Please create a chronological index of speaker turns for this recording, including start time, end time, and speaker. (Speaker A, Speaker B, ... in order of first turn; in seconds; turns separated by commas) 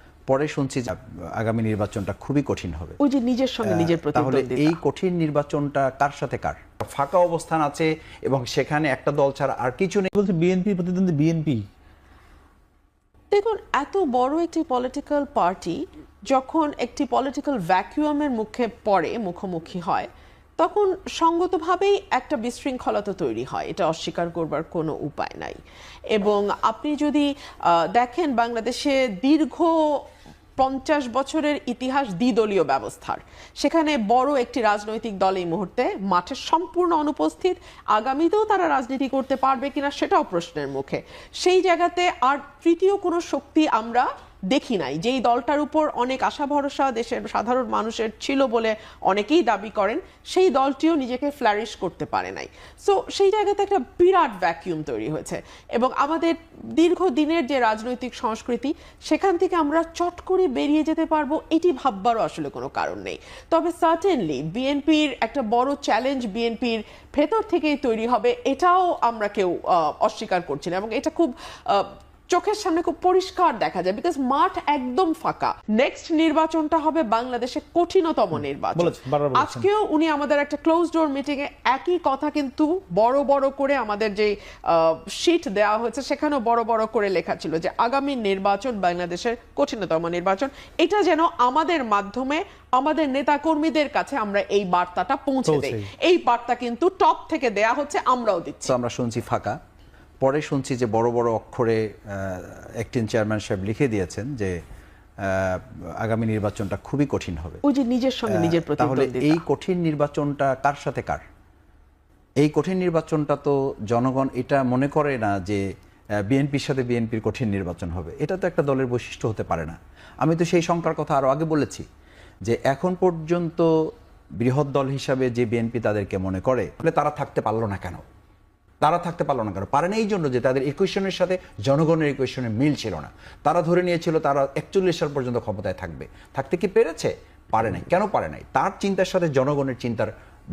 Speaker A: 0.3-3.0, Speaker B: 3.0-4.8, Speaker A: 3.6-10.1, Speaker C: 10.1-11.6, Speaker B: 13.3-25.6, Speaker B: 26.1-30.0, Speaker B: 30.6-98.7, Speaker C: 78.7-79.7, Speaker A: 98.7-99.6, Speaker A: 100.2-104.5, Speaker A: 105.2-107.6, Speaker B: 107.6-109.4, Speaker A: 108.3-111.2, Speaker A: 112.4-115.6, Speaker A: 116.3-121.8, Speaker A: 122.5-123.7, Speaker A: 124.4-128.0, Speaker A: 128.8-140.1